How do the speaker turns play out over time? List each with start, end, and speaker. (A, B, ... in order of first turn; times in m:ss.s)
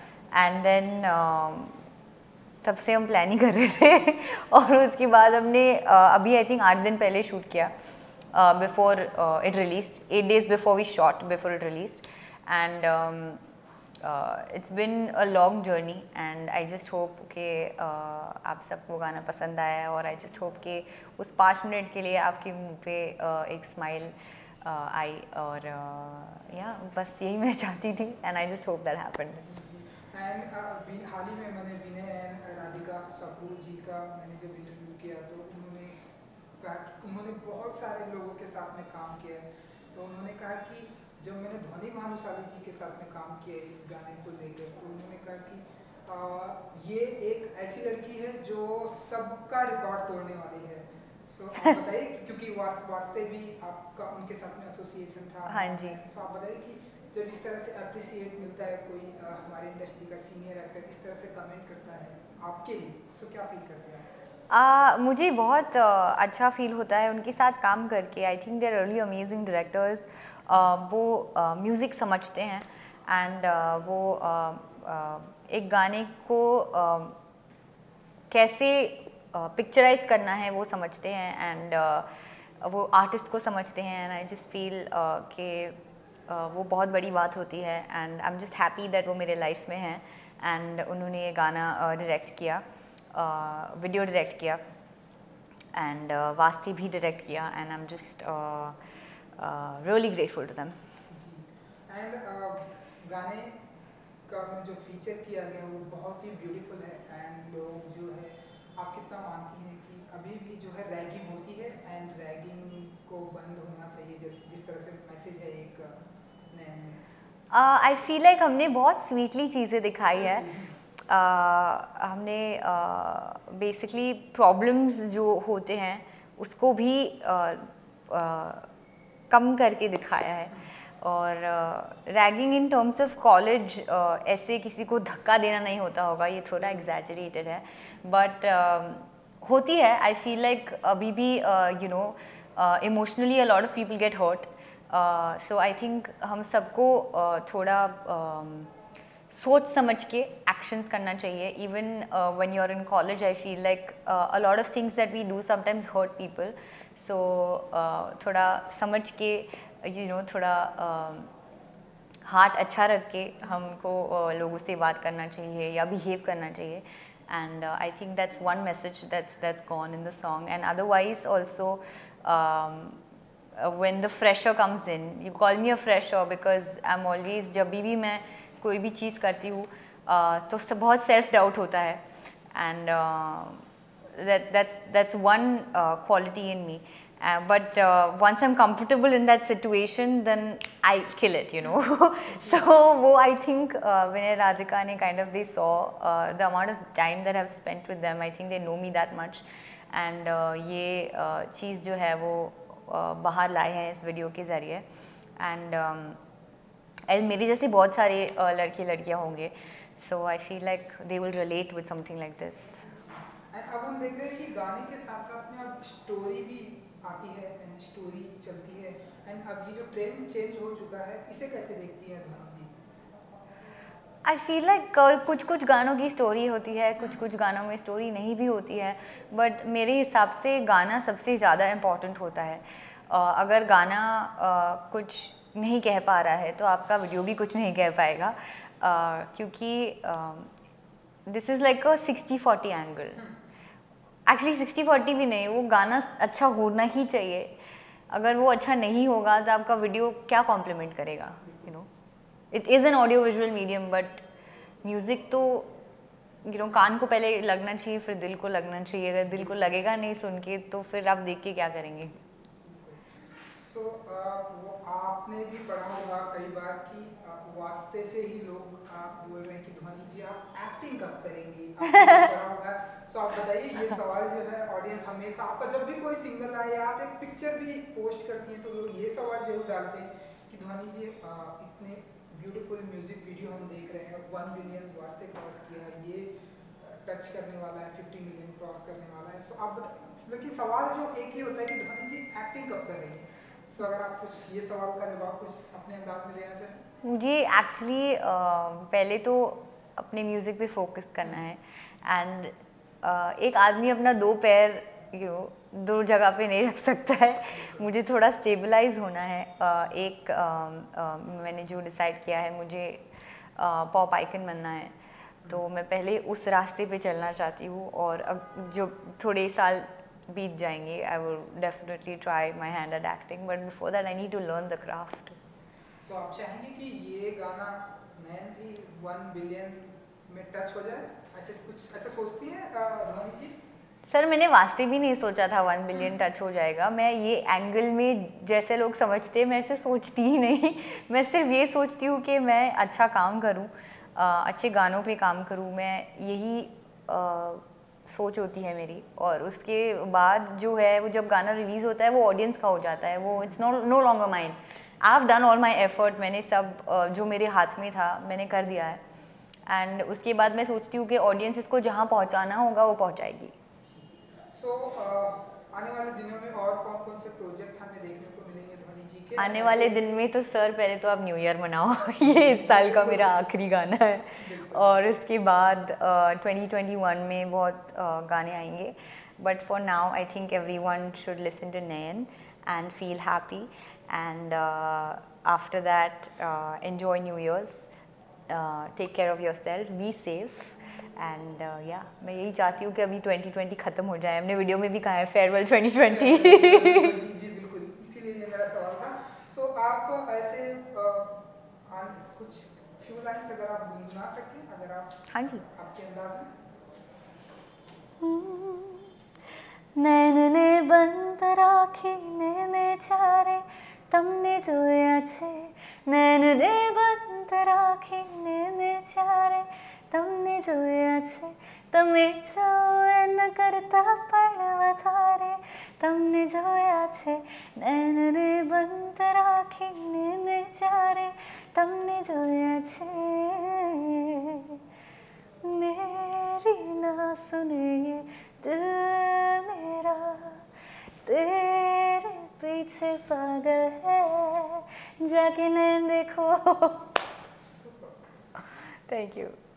0:00.3-0:01.8 A
0:02.6-0:07.7 A
0:08.3-0:13.4 A
0:14.0-0:29.4 A
0:29.4-0:36.0 B
0:36.6-1:04.1 B
0:55.5-0:56.0 A
1:04.5-1:17.2 A
1:18.3-1:22.1 A
1:22.6-1:25.8 A
1:26.3-1:32.6 A
1:33.1-1:34.6 A
1:35.8-1:38.8 A
1:39.4-1:40.8 A
1:41.1-1:43.6 B
1:44.3-1:56.0 B
1:56.5-1:57.0 B
1:57.5-2:00.5 A
1:59.9-2:00.8 B
2:01.1-2:08.7 A
2:09.3-2:28.7 A
2:29.3-2:41.3 A
2:42.2-2:53.0 A
2:53.6-3:02.0 A
3:02.5-3:24.9 A
3:11.6-3:12.6 B
3:25.4-3:26.2 A
3:27.1-3:32.8 A
3:32.8-3:42.7 B
3:44.2-4:00.5 A
4:01.3-4:03.2 A
4:04.3-4:07.6 A
4:08.1-4:11.9 A
4:11.4-4:11.7 B
4:12.5-4:14.2 A
4:14.8-4:15.7 A
4:16.4-4:22.1 A
4:22.6-4:56.8 B
4:57.0-5:13.1 A
5:07.6-5:07.9 B
5:13.6-5:15.0 A
5:15.5-5:25.4 A
5:26.0-5:33.6 B
5:34.1-5:59.0 A
5:35.9-5:36.2 B
5:59.7-6:03.5 A
6:03.8-6:10.0 B
6:09.4-6:27.8 A
6:12.2-6:13.5 B
6:14.4-6:15.2 B
6:28.5-6:37.2 A
6:36.0-6:46.5 B
6:45.3-6:45.6 A
6:48.2-6:49.1 A
6:50.0-7:14.8 A
7:15.6-7:20.7 A
7:21.2-7:27.1 A
7:27.6-7:28.3 B
7:29.1-7:29.6 A